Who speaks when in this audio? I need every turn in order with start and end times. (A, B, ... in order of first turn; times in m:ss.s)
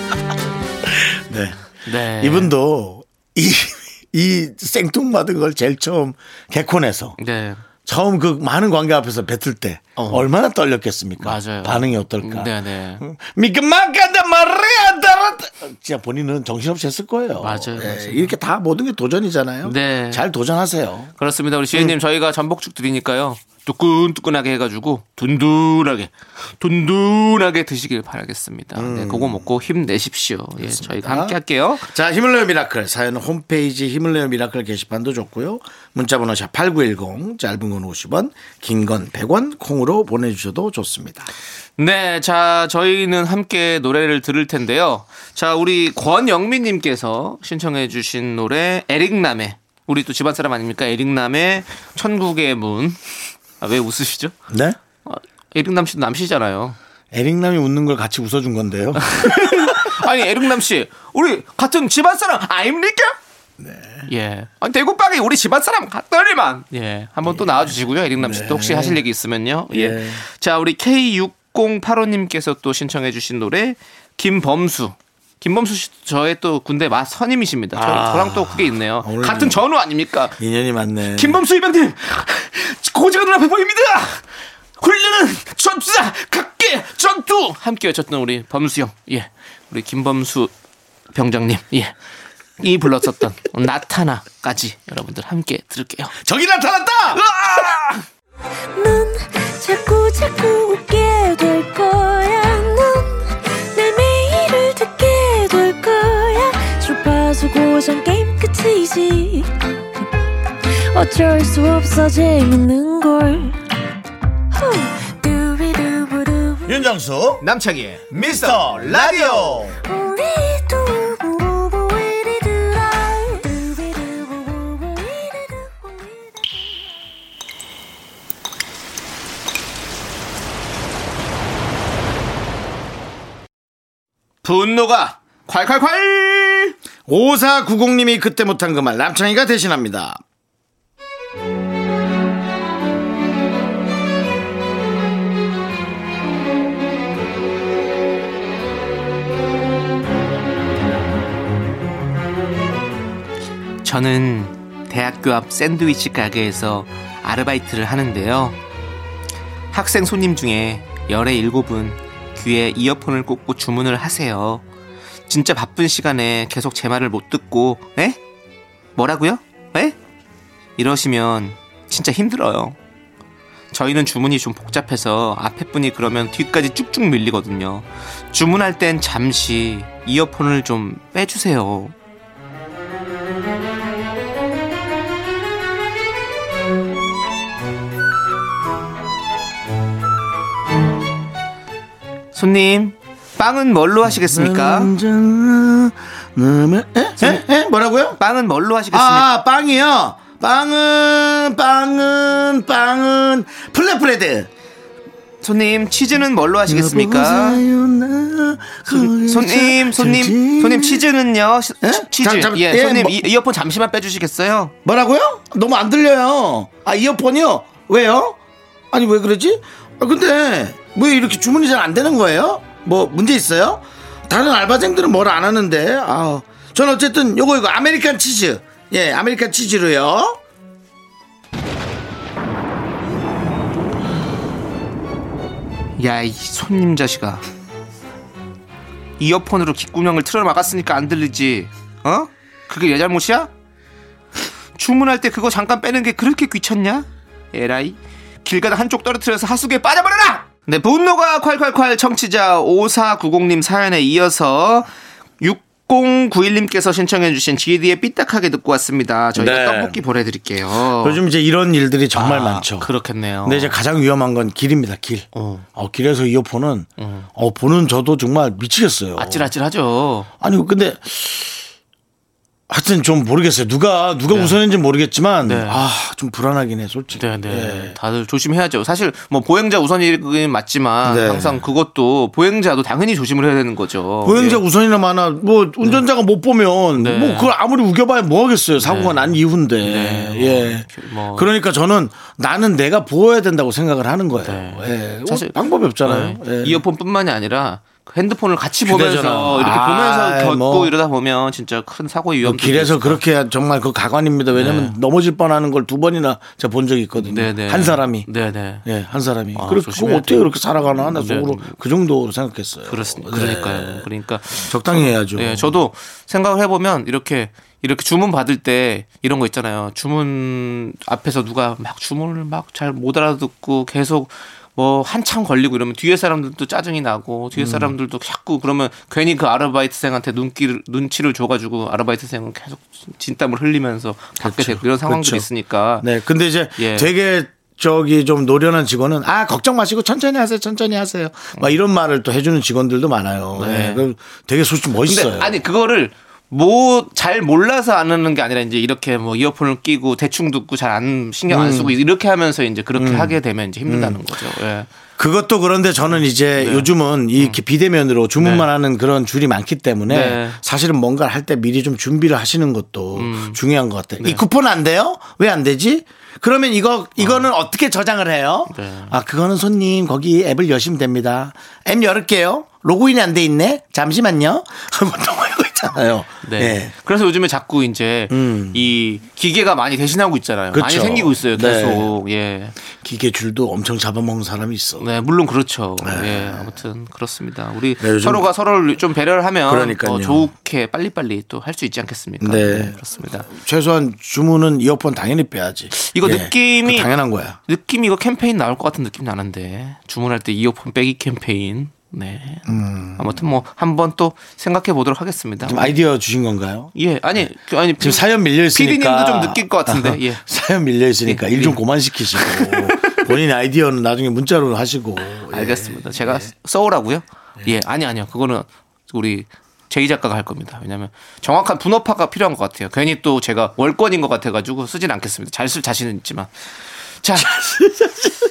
0:00.8-0:01.6 A
0:01.8-0:02.5 B
0:02.2-0:07.2 A
0:07.2-0:07.6 B
0:07.8-0:21.1 A
0:10.0-0:10.2 B
0:11.2-0:13.0 B
0:17.4-0:18.3 B
0:19.6-0:20.2 B
0:21.2-0:31.8 B
0:28.7-0:29.5 A
0:30.6-0:41.3 A
0:41.8-0:53.0 B
0:53.6-0:54.3 B
0:54.5-0:54.8 A
0:55.0-0:56.8 B
0:57.1-0:59.9 A
0:59.0-1:03.1 B
1:03.6-1:04.1 A
1:04.1-1:20.3 B
1:07.2-1:07.6 A
1:08.2-1:09.0 A
1:09.7-1:10.2 A
1:17.7-1:19.6 A
1:20.4-1:21.4 A
1:21.1-1:24.2 B
1:24.8-1:30.5 B
1:31.1-1:31.9 B
1:32.6-1:36.1 B
1:36.2-1:37.3 A
1:37.1-1:38.0 B
1:38.7-1:50.0 C
1:50.7-1:53.6 C
1:54.5-1:56.8 C
1:56.6-1:57.4 A
1:57.4-1:59.6 B
1:58.1-1:59.8 A
1:59.8-2:06.9 C
2:14.4-2:16.7 B
2:17.1-2:20.2 A
2:33.8-2:38.6 B
2:39.7-2:44.6 B
2:45.3-2:48.2 B
2:49.0-2:50.0 B
2:50.8-2:52.8 B
2:53.7-3:01.9 B
3:12.3-3:14.9 B
3:14.0-3:18.2 A
3:18.2-3:19.3 B
3:18.9-3:24.5 A
3:25.4-3:27.6 B
3:26.7-3:31.0 A
3:28.9-3:34.7 B
3:31.8-3:33.2 A
3:34.8-3:38.4 A
3:38.9-3:50.4 A
3:56.0-3:57.4 B
3:59.2-4:03.5 B
4:04.8-4:14.9 B
4:15.4-4:21.2 B
4:19.4-4:20.0 A
4:21.0-4:22.9 A
4:22.1-4:23.8 B
4:23.4-4:29.5 A
4:25.3-4:25.6 B
4:27.0-4:27.3 B
4:29.2-4:30.3 B
4:30.4-4:31.6 A
4:32.7-4:38.0 A
4:34.3-4:34.6 B
4:35.4-4:35.8 B
4:37.1-4:44.6 B
4:41.0-4:41.6 A
4:44.2-4:56.8 A
4:46.9-4:47.5 B
4:48.8-4:51.5 B
4:54.4-5:03.2 B
4:58.8-5:00.9 A
5:02.4-5:08.3 A
5:04.5-5:04.9 B
5:07.2-5:08.8 B
5:08.8-5:15.8 A
5:09.5-5:11.8 B
5:12.9-5:36.1 B
5:27.5-5:27.9 A
5:34.4-5:35.5 A
5:36.0-5:45.6 A
5:36.8-5:37.1 B
5:43.6-5:44.0 B
5:45.0-5:54.9 B
5:51.5-5:52.0 A
5:52.9-5:54.2 A
5:55.2-6:16.9 A
5:56.6-5:57.6 B
5:58.4-5:58.6 B
6:00.1-6:00.6 B
6:03.1-6:03.6 B
6:04.2-6:04.4 B
6:07.2-6:07.5 B
6:08.7-6:09.1 B
6:16.4-6:22.8 B
6:18.3-6:18.8 A
6:20.7-6:22.2 A
6:23.0-6:25.0 A
6:25.0-6:33.5 B
6:26.0-6:26.7 A
6:28.0-6:28.5 A
6:29.7-6:30.5 A
6:32.4-6:37.6 A
6:35.9-6:37.1 B
6:37.7-6:45.9 B
6:42.6-6:43.4 A
6:45.6-6:46.9 A
6:46.9-6:50.4 B
6:48.0-6:56.5 A
6:51.2-6:53.2 B
6:55.5-7:06.5 B
7:07.2-7:07.6 B
7:07.4-7:08.3 A